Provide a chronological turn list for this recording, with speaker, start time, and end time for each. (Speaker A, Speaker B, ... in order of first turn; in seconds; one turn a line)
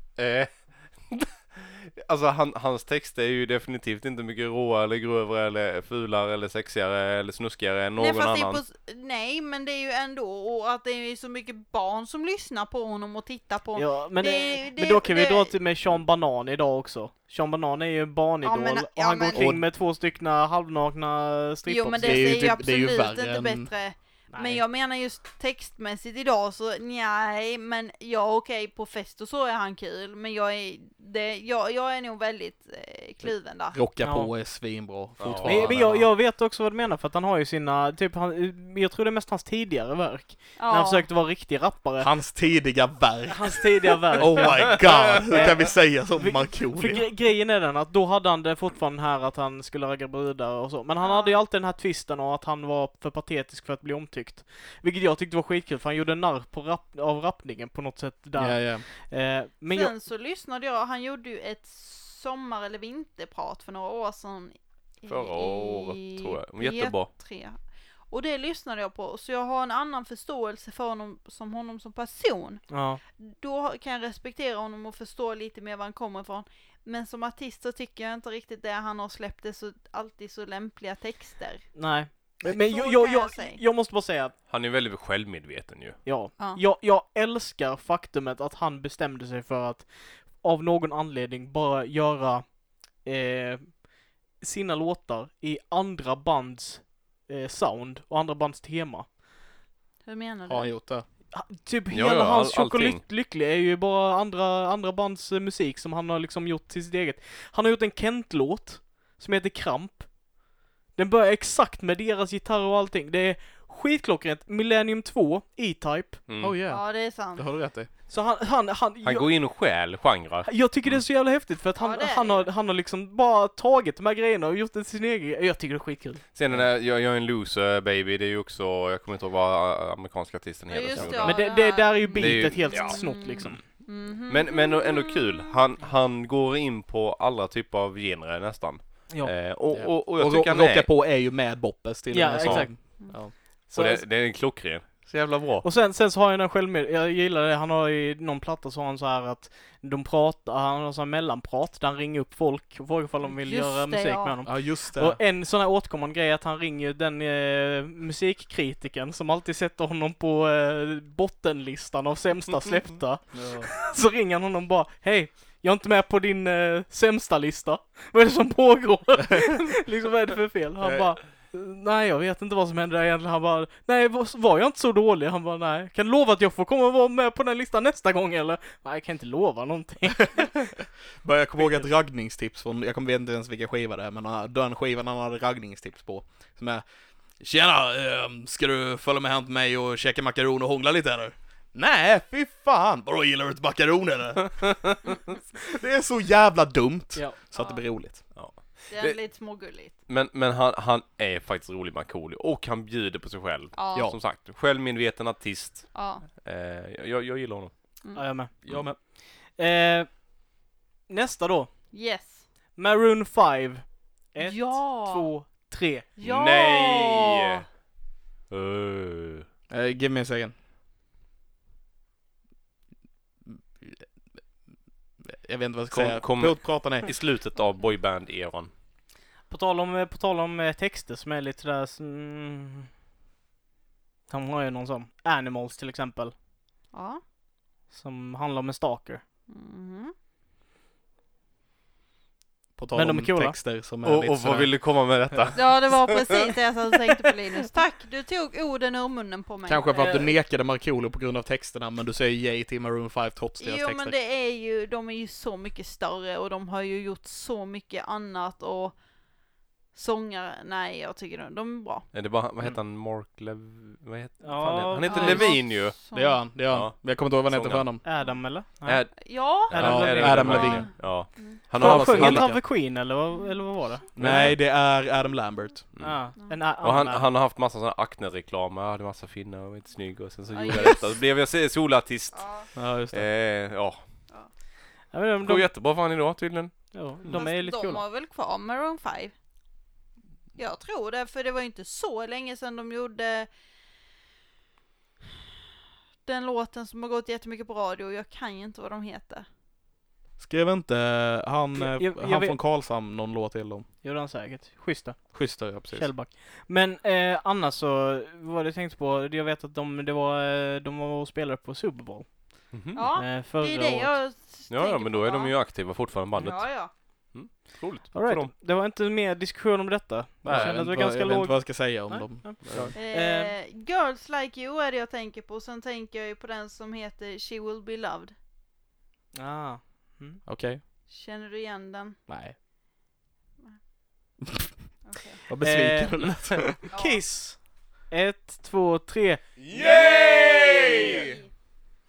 Speaker A: 0.2-8.6
Speaker B: 8.0-15.5
Speaker C: 13.7-22.4
Speaker B: 18.4-19.5
Speaker D: 19.3-19.6
Speaker B: 21.7-33.8
Speaker D: 22.0-23.7
Speaker C: 24.3-24.6
Speaker D: 33.2-36.1
Speaker C: 34.0-34.3
Speaker A: 35.2-35.8
Speaker C: 35.4-42.1
Speaker B: 40.6-41.1
Speaker D: 42.0-47.1
Speaker C: 43.3-59.9
Speaker B: 51.0-51.3
Speaker D: 58.4-58.9
Speaker B: 59.7-81.7
Speaker A: 65.1-67.1
Speaker C: 72.7-73.0
Speaker C: 81.7-84.3
Speaker B: 82.4-83.6
Speaker A: 84.5-86.0
Speaker C: 86.0-99.1
Speaker B: 100.0-100.7
Speaker D: 100.5-101.0
Speaker C: 101.3-110.1
Speaker A: 101.9-103.0
Speaker C: 110.9-116.2
Speaker A: 116.3-116.6
Speaker D: 116.4-117.9
Speaker B: 116.7-117.5
Speaker C: 118.1-119.3
Speaker A: 119.0-121.0
Speaker C: 120.4-126.2
Speaker B: 121.8-122.5
Speaker A: 126.3-131.6
Speaker B: 130.7-135.6
Speaker C: 131.2-133.6
Speaker A: 132.2-140.9
Speaker D: 139.7-143.3
Speaker C: 142.1-143.1
Speaker A: 142.4-142.7
Speaker A: 143.7-145.7
Speaker C: 143.7-144.0
Speaker C: 145.6-180.6
Speaker B: 153.3-154.3
Speaker D: 154.4-155.2
Speaker D: 163.3-163.7
Speaker D: 181.2-186.8
Speaker D: 187.4-195.0
Speaker D: 195.6-198.2
Speaker B: 197.5-197.8
Speaker A: 198.3-199.2
Speaker B: 198.9-200.0
Speaker A: 200.1-207.9
Speaker B: 203.7-204.1
Speaker B: 205.9-206.2
Speaker C: 208.1-210.4
Speaker D: 208.6-209.0
Speaker C: 211.1-211.9
Speaker B: 211.9-212.5
Speaker C: 212.7-216.1
Speaker B: 214.4-215.3
Speaker B: 216.2-217.6
Speaker A: 216.2-217.6
Speaker A: 218.5-219.4
Speaker D: 219.7-220.5
Speaker D: 223.5-224.1
Speaker D: 225.2-227.1
Speaker A: 225.9-228.7
Speaker C: 229.5-232.9
Speaker C: 234.3-236.3
Speaker B: 236.9-237.2
Speaker C: 237.9-239.2
Speaker B: 239.5-240.1
Speaker D: 242.8-244.7
Speaker C: 242.9-243.6
Speaker A: 244.0-246.4
Speaker B: 245.5-250.3
Speaker D: 249.7-254.1
Speaker B: 253.6-259.0
Speaker B: 259.9-262.1
Speaker A: 262.1-265.9
Speaker C: 264.4-265.5
Speaker B: 265.0-266.4
Speaker D: 266.1-268.0
Speaker A: 266.7-267.9
Speaker C: 268.0-270.8
Speaker A: 268.8-272.5
Speaker B: 269.2-271.6
Speaker D: 269.7-270.9
Speaker D: 271.7-272.6
Speaker C: 271.8-274.5
Speaker B: 273.3-273.6
Speaker D: 274.1-275.9
Speaker A: 274.2-274.5
Speaker C: 276.0-277.3
Speaker A: 276.8-284.0
Speaker B: 280.5-281.1
Speaker B: 282.3-282.7
Speaker D: 282.7-283.2
Speaker C: 285.1-285.7
Speaker A: 285.4-287.4
Speaker C: 286.9-288.0
Speaker B: 287.3-289.3
Speaker B: 290.6-293.5
Speaker B: 296.2-299.4
Speaker D: 300.4-303.9
Speaker C: 301.8-302.6
Speaker C: 304.0-314.2
Speaker D: 305.3-306.1
Speaker A: 312.7-313.0
Speaker B: 312.9-315.5
Speaker A: 314.7-318.5
Speaker B: 316.3-316.9
Speaker C: 318.1-323.5
Speaker D: 320.4-322.9
Speaker B: 322.9-328.3
Speaker C: 329.3-330.4
Speaker D: 330.4-330.8
Speaker B: 331.1-332.2
Speaker D: 332.3-332.6
Speaker B: 335.0-335.4
Speaker D: 335.5-336.8
Speaker C: 335.6-339.4
Speaker B: 336.9-337.2
Speaker D: 339.7-341.3
Speaker A: 339.7-341.2
Speaker B: 340.9-341.4